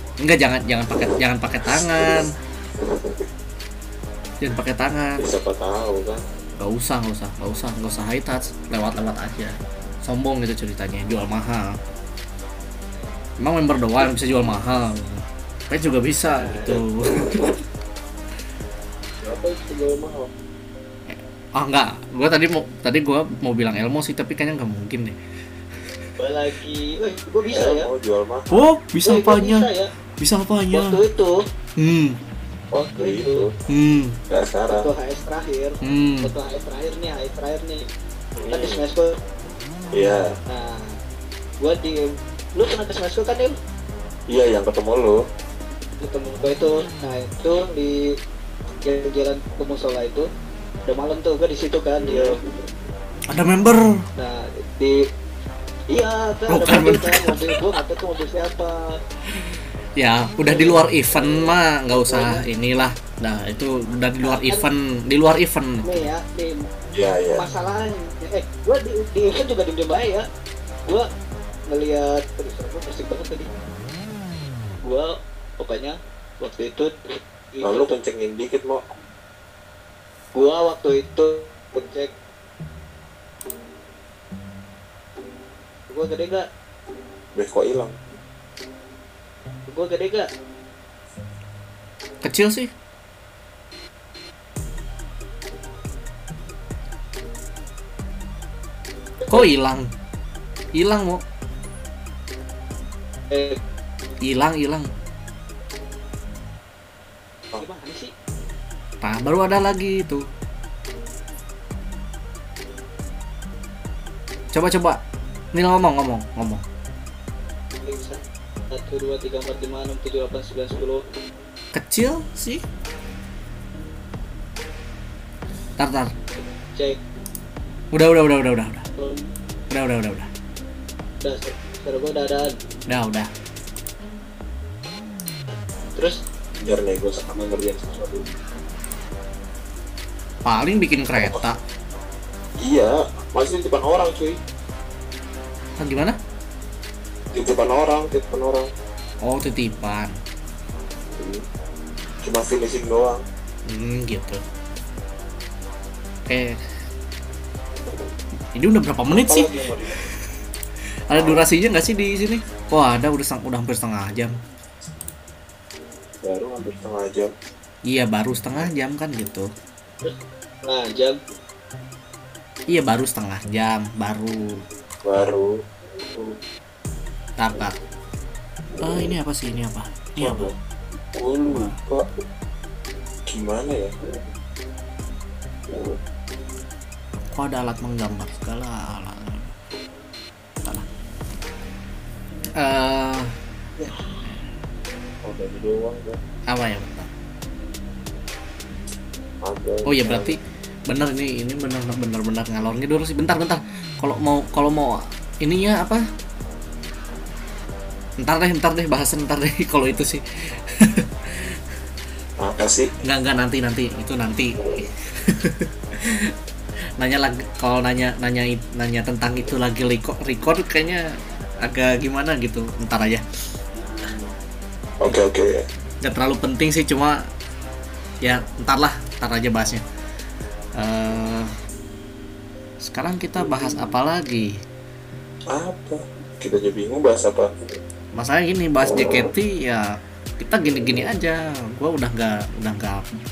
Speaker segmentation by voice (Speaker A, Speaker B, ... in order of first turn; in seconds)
Speaker A: 0.2-2.3, 4.4-5.3, 6.6-11.8, 13.4-17.6, 21.1-25.2, 28.5-29.7, 30.2-31.0, 31.8-32.2, 33.7-34.2, 35.8-36.3, 53.3-54.0, 56.5-57.7, 59.3-66.1, 92.2-92.7, 99.3-99.9, 100.7-101.2, 104.2-104.9, 109.0-110.2, 114.5-115.0, 115.5-116.6, 121.7-122.6, 125.8-126.1, 127.9-128.8, 129.7-130.3, 132.9-133.3, 140.4-141.6, 145.8-146.2, 149.2-150.1, 153.7-154.4, 156.3-156.6, 158.5-159.5, 161.1-164.4, 167.9-169.5, 172.7-175.3, 177.4-177.8, 178.8-180.5, 181.5-181.8, 187.3-189.6, 192.6-193.3, 196.5-197.1, 199.8-206.0, 208.2-211.6, 213.0-216.3, 217.0-223.2, 226.0-227.2, 228.2-229.8, 230.8-231.5, 232.8-234.5, 238.1-243.0
Speaker B: 1.0-3.3, 5.2-6.2, 16.6-17.5, 19.2-20.3, 27.5-28.6, 32.7-33.5, 34.3-34.9, 38.4-38.8, 39.9-40.4, 44.3-45.2, 52.0-52.4, 66.9-67.4, 77.6-78.8, 87.3-88.0, 136.6-138.3, 141.2-141.5, 142.6-144.4, 147.3-148.7, 151.1-151.4, 152.2-153.2, 159.1-160.0, 161.1-161.4, 166.2-167.3, 175.0-175.6, 180.2-180.5, 181.1-182.1, 183.3-183.9, 193.8-194.0, 195.2-196.2, 199.4-200.4, 212.4-212.9, 225.0-225.6, 235.5-237.5
Speaker C: 26.2-27.9, 29.0-29.9, 30.7-31.4, 32.9-33.5, 34.7-37.9, 38.5-39.1, 40.5-41.0, 41.6-43.6, 46.0-48.1, 48.8-50.3, 50.9-52.4, 54.2-55.1, 55.9-58.9, 60.5-62.4, 64.2-64.6, 65.8-66.7, 67.3-70.3, 71.7-73.5, 74.8-77.9, 80.3-82.1, 85.9-86.5, 89.7-90.3, 103.3-103.6, 107.5-108.1, 117.8-121.0, 126.7-127.0, 129.0-129.3, 131.2-132.6, 135.5-136.2, 170.0-171.2